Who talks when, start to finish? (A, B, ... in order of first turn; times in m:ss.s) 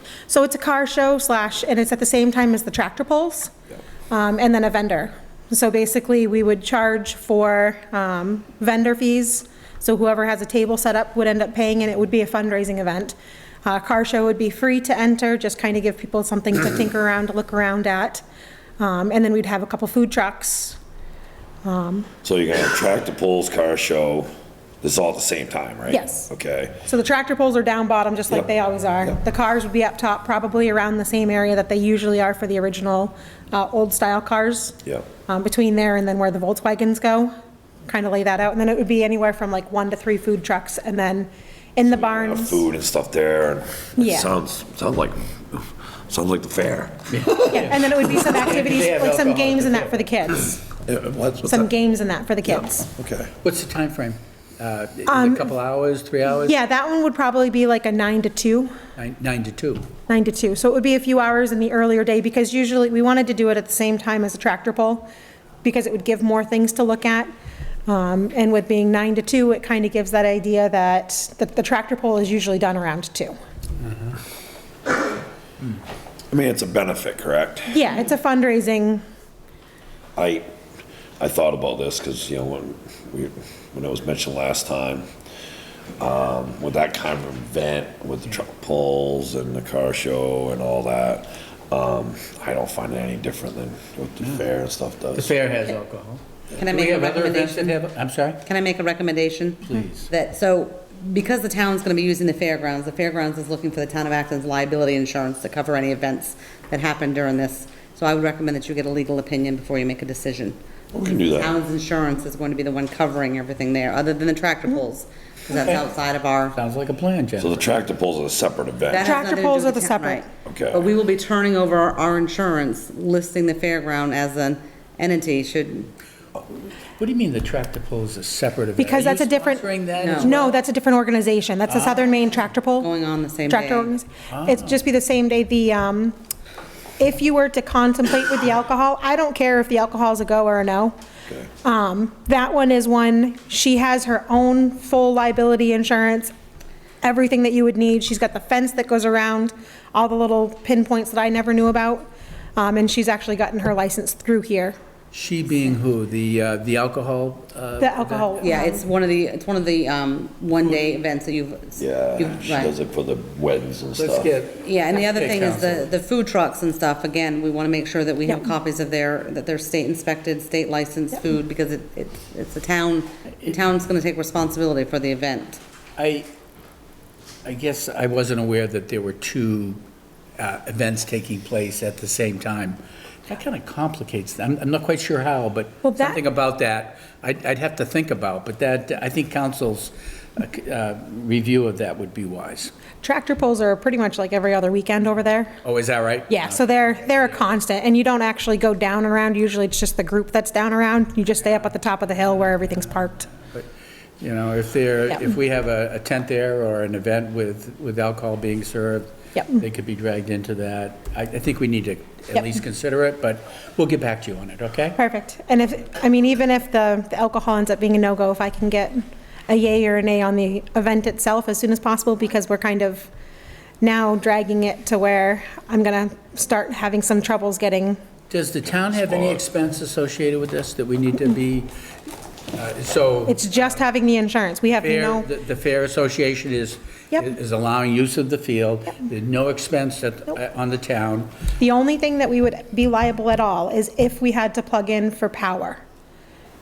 0:00.3-0:03.5 A
0:04.1-0:18.2 A
0:18.8-0:20.8 A
0:21.6-0:22.1 A
0:22.2-0:24.3 B
0:24.8-0:26.8 B
0:25.9-0:26.3 A
0:26.8-0:34.8 A
0:35.3-0:37.3 A
0:37.9-0:42.6 A
0:41.9-0:47.7 B
0:44.0-0:44.3 A
0:47.1-0:50.0 C
0:47.4-0:50.6 A
0:50.8-0:51.7 B
0:51.4-0:52.9 A
0:52.5-0:53.3 B
0:53.4-0:56.6 C
0:55.1-0:55.5 A
0:56.3-0:58.7 A
0:59.0-0:59.9 C
1:00.1-1:05.1 A
1:05.6-1:07.3 A
1:07.9-1:13.3 A
1:16.3-1:17.8 B
1:17.7-1:19.0 A
1:20.2-1:20.4 B
1:21.2-1:25.0 B
1:26.0-1:35.4 B
1:34.2-1:34.4 C
1:35.1-1:38.4 C
1:36.5-1:37.7 D
1:38.4-1:50.6 D
1:39.7-1:40.1 C
1:50.9-1:51.5 B
1:51.3-1:56.6 D
1:56.5-1:57.8 C
1:57.4-1:59.2 B
1:58.9-2:05.9 D
1:59.0-2:00.3 A
2:00.4-2:00.9 B
2:07.0-2:10.5 C
2:08.8-2:12.9 A
2:10.0-2:10.3 D
2:11.7-2:12.0 C
2:12.8-2:13.9 D
2:13.5-2:16.2 A
2:14.3-2:14.7 C
2:17.0-2:20.9 A
2:21.6-2:26.3 A
2:27.0-2:34.8 A
2:35.1-2:38.5 C
2:37.8-2:38.8 A
2:38.4-2:42.8 D
2:41.8-2:44.3 B
2:43.9-2:45.9 C
2:44.6-2:55.6 D
2:56.0-2:56.3 C
2:57.4-2:59.8 C
3:00.4-3:12.7 C
3:05.8-3:06.2 A
3:13.0-3:15.5 A
3:15.6-3:17.4 C
3:16.3-3:23.3 A
3:22.2-3:23.7 C
3:24.2-3:35.0 C
3:29.4-3:29.6 A
3:35.0-3:43.1 A
3:43.8-3:48.0 A
3:48.3-3:51.7 C
3:48.9-3:49.4 B
3:52.5-3:53.6 C
3:53.3-3:55.3 A
3:54.8-4:01.3 C
4:01.6-4:05.8 A